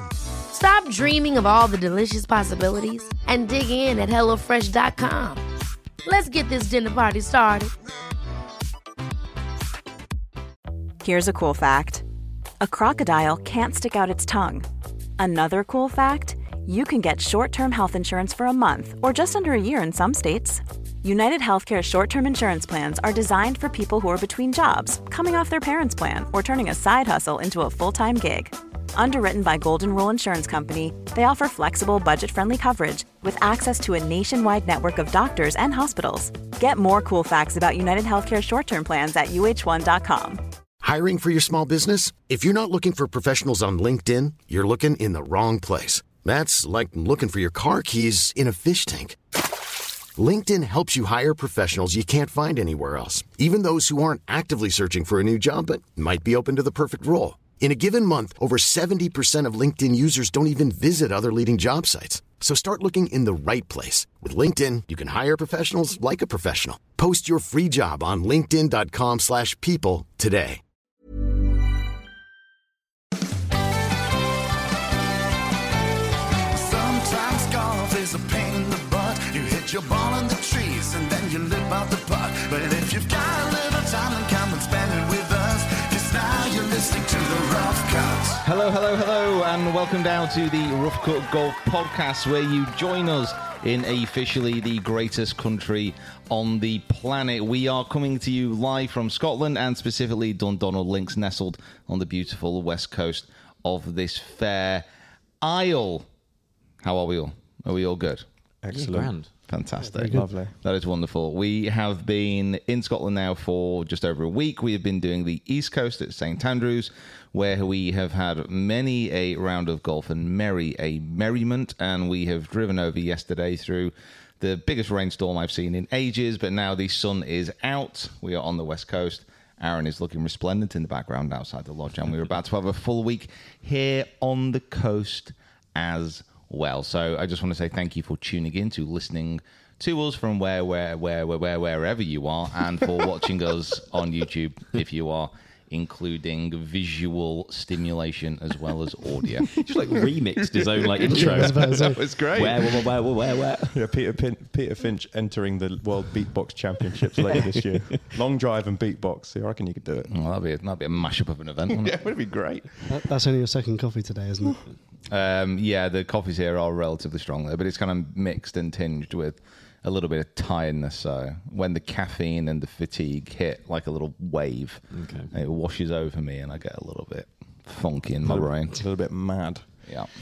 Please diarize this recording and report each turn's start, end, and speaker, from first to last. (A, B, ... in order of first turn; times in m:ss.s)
0:00.5-0:05.4 A
0:06.0-0:07.7 A
0:11.0-0:12.0 B
0:12.6-0:14.6 B
0:15.2-0:40.4 B
0:40.8-0:49.2 C
0:50.2-1:10.6 C
1:16.5-1:28.4 D
1:28.4-1:44.8 E
1:45.4-1:46.1 E
1:46.8-1:48.2 E
1:48.6-1:49.1 F
1:48.7-1:49.3 G
1:49.5-2:29.6 E
1:49.8-1:50.2 H
1:50.1-1:50.5 F
2:29.5-2:33.8 G
2:30.4-2:32.9 F
2:31.2-2:32.0 H
2:33.7-2:40.1 F
2:37.3-2:37.5 G
2:40.1-2:42.1 E
2:41.7-2:42.8 F
2:42.9-2:44.6 H
2:45.1-2:58.8 E
2:54.9-2:55.3 G
2:58.2-2:59.7 F